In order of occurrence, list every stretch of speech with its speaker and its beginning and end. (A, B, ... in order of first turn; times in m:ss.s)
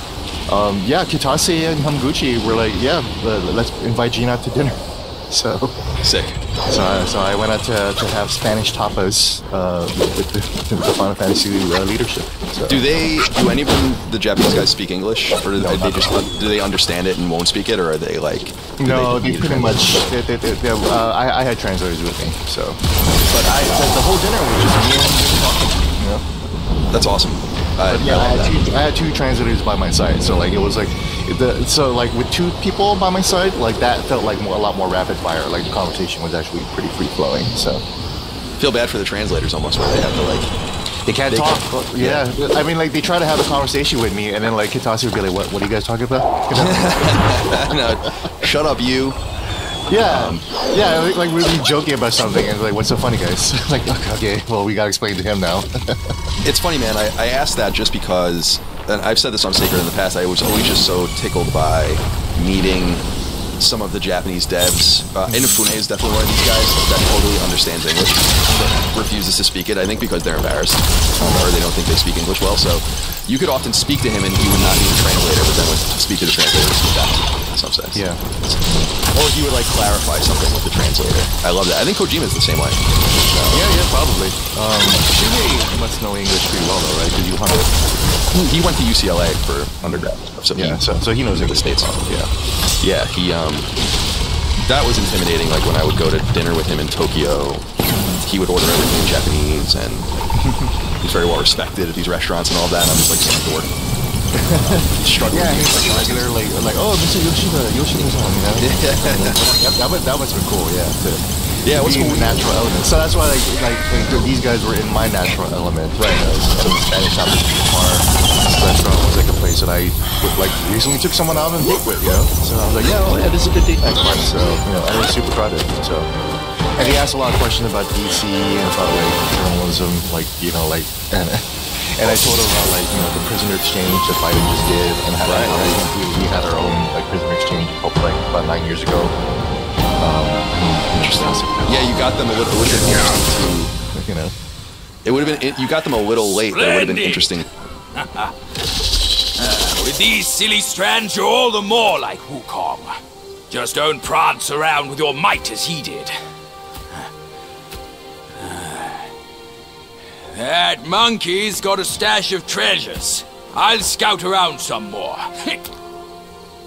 0:00.5-0:04.8 A
0:05.3-0:05.8 A
0:06.0-0:06.4 B
0:06.7-0:12.9 A
0:12.7-0:19.8 B
0:15.6-0:16.1 A
0:18.8-0:26.2 A
0:26.9-0:28.6 B
0:27.9-0:37.8 A
0:38.6-0:40.5 B
0:41.0-0:47.7 A
0:41.3-0:42.2 B
0:46.5-0:49.2 B
0:49.9-0:56.1 A
0:50.0-0:50.4 B
0:56.4-1:03.0 B
1:03.6-1:18.6 B
1:05.3-1:05.6 A
1:11.2-1:11.6 A
1:17.9-1:18.9 A
1:19.1-1:23.6 B
1:23.5-1:27.9 A
1:28.3-1:32.1 B
1:29.8-1:32.3 A
1:32.8-1:33.7 B
1:34.6-1:37.7 B
1:37.9-1:38.2 A
1:38.2-1:40.1 B
1:40.4-1:40.7 A
1:41.0-1:43.7 B
1:44.4-2:06.1 A
1:45.0-1:46.3 B
1:48.6-1:49.4 B
1:51.6-1:52.4 B
1:56.0-1:56.3 B
2:06.8-2:19.1 A
2:15.2-2:15.8 B
2:20.0-2:22.1 A
2:20.9-2:23.7 B
2:23.9-2:24.3 A
2:25.0-2:27.5 B
2:26.4-2:28.3 C
2:29.4-2:33.0 C
2:33.5-2:36.2 C
2:38.3-2:39.1 C
2:40.2-2:45.7 C